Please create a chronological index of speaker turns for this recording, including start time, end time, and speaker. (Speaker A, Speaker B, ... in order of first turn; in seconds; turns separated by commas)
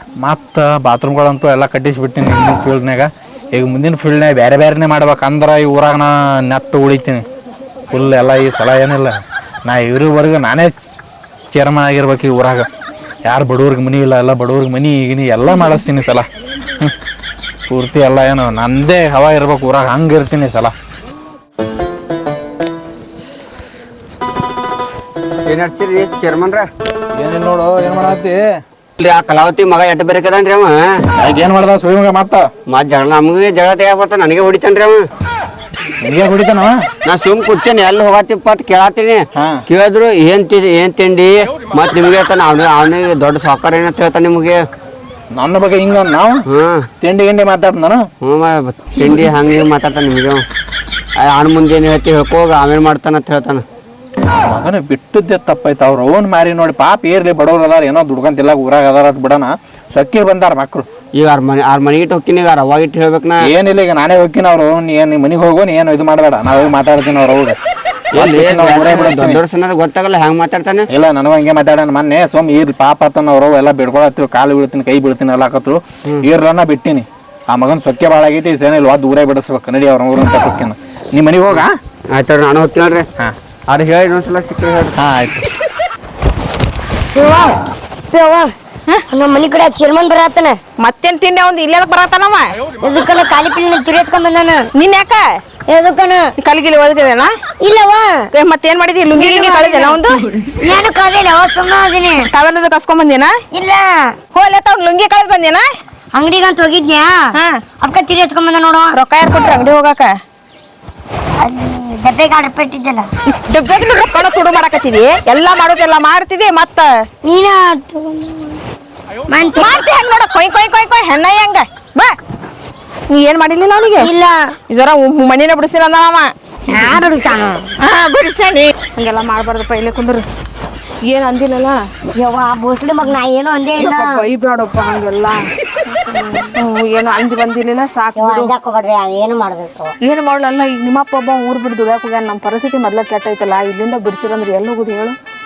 Speaker A: 0.2-7.2, Speaker A: 7.9-10.7, Speaker A: 11.5-12.7, Speaker A: 13.2-16.3, Speaker A: 17.7-20.7, Speaker B: 25.5-26.7, Speaker A: 27.2-28.4, Speaker B: 29.0-30.8, Speaker A: 31.2-32.5, Speaker B: 32.7-35.0, Speaker A: 36.0-36.8, Speaker B: 37.1-44.6, Speaker A: 45.3-46.4, Speaker B: 46.5-46.9, Speaker A: 47.0-48.0, Speaker B: 48.2-50.4, Speaker B: 51.3-53.6, Speaker A: 54.4-60.9, Speaker B: 61.2-63.5, Speaker A: 63.4-67.6, Speaker A: 68.2-69.4, Speaker B: 68.2-70.9, Speaker A: 70.9-81.8, Speaker B: 81.5-83.1, Speaker B: 83.7-85.0, Speaker A: 85.0-85.5, Speaker C: 87.1-87.6, Speaker C: 88.1-88.5, Speaker C: 89.1-90.6, Speaker D: 90.8-92.6, Speaker C: 92.8-94.7, Speaker D: 94.8-95.4, Speaker C: 95.7-96.3, Speaker D: 96.4-97.3, Speaker C: 97.6-98.3, Speaker D: 98.3-100.2, Speaker C: 99.1-102.3, Speaker D: 102.2-103.4, Speaker C: 103.5-104.2, Speaker D: 104.3-105.7, Speaker C: 106.1-107.3, Speaker D: 107.3-107.6, Speaker C: 107.8-109.0, Speaker D: 108.9-110.2, Speaker C: 111.4-113.1, Speaker D: 113.3-117.0, Speaker C: 117.2-118.6, Speaker C: 119.3-119.8, Speaker D: 119.6-122.2, Speaker D: 123.1-124.1, Speaker C: 124.0-124.5, Speaker D: 124.7-126.3, Speaker C: 126.7-127.7, Speaker D: 127.8-130.2, Speaker D: 131.1-131.8, Speaker C: 132.2-134.2, Speaker D: 133.8-135.5, Speaker C: 136.1-136.5, Speaker D: 136.6-138.5, Speaker C: 138.2-139.9, Speaker D: 140.0-145.2